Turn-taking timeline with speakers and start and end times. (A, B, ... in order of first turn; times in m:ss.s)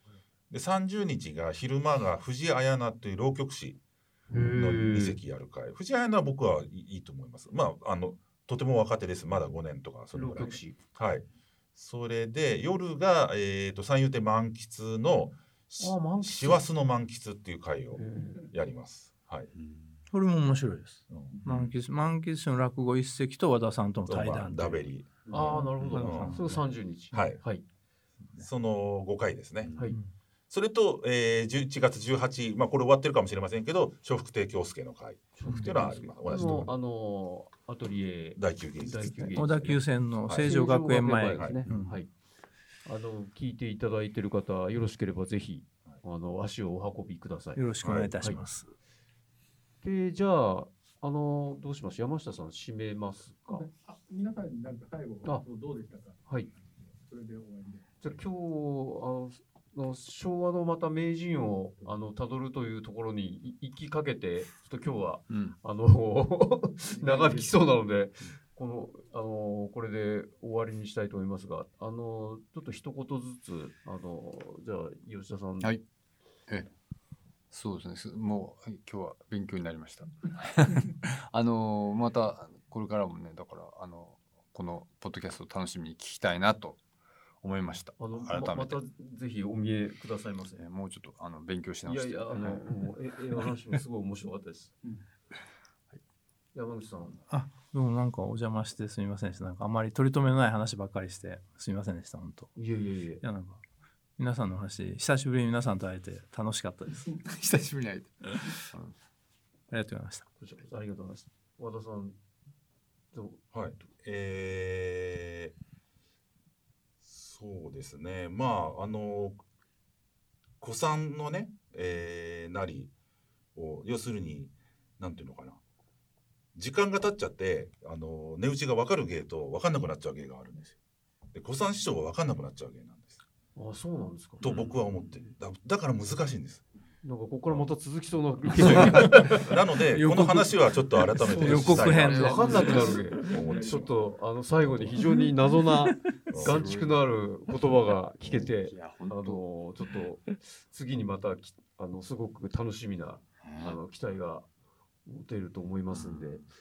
0:00.5-0:03.8 A
0:04.3-0:05.2 B
0:04.3-0:19.5 A
0:10.1-0:10.8 B
0:15.8-0:16.6 B
0:17.9-0:18.5 B
0:19.5-0:20.0 C
0:20.1-0:24.8 D
0:21.1-0:21.8 A
0:24.1-0:26.4 A
0:25.3-0:27.6 B
0:25.7-0:26.0 C
0:25.8-0:27.4 D
0:27.1-0:27.4 A
0:28.3-0:29.8 A
0:29.6-0:30.0 C
0:29.7-0:30.0 B
0:30.5-0:36.7 A
0:35.4-0:42.1 B
0:35.5-0:35.8 D
0:38.4-0:39.5 A
0:39.2-0:42.0 D
0:40.2-0:40.5 A
0:41.4-0:41.6 A
0:42.8-0:48.4 B
0:47.5-0:48.7 D
0:47.8-0:48.3 A
0:49.8-0:53.6 B
0:53.7-0:56.1 E
0:57.1-0:57.8 E
0:58.0-1:15.8 B
1:05.3-1:05.6 C
1:06.9-1:07.3 E
1:17.5-1:26.8 C
1:27.4-1:28.8 C
1:28.0-1:30.6 B
1:30.4-1:32.9 C
1:31.8-1:34.8 B
1:36.5-1:37.2 B
1:37.3-1:42.6 D
1:42.5-1:43.2 B
1:43.2-1:43.6 D
1:44.2-1:47.0 D
1:46.9-1:48.9 C
1:49.7-1:50.3 D
1:50.4-1:52.2 B
1:53.1-1:53.4 B
1:53.5-1:55.5 A
1:57.0-1:59.4 A
2:00.6-2:02.9 A
2:03.6-2:05.6 A
2:06.6-2:10.8 A
2:11.3-2:13.2 A
2:13.6-2:14.4 B
2:14.4-2:16.6 A
2:14.4-2:15.0 C
2:17.0-2:19.4 B
2:18.5-2:24.0 A
2:19.9-2:22.4 D
2:21.2-2:23.3 C
2:21.3-2:34.5 B
2:24.6-2:25.0 A
2:26.3-2:29.4 C
2:33.4-2:33.8 C
2:35.1-2:36.4 B
2:35.9-2:36.4 C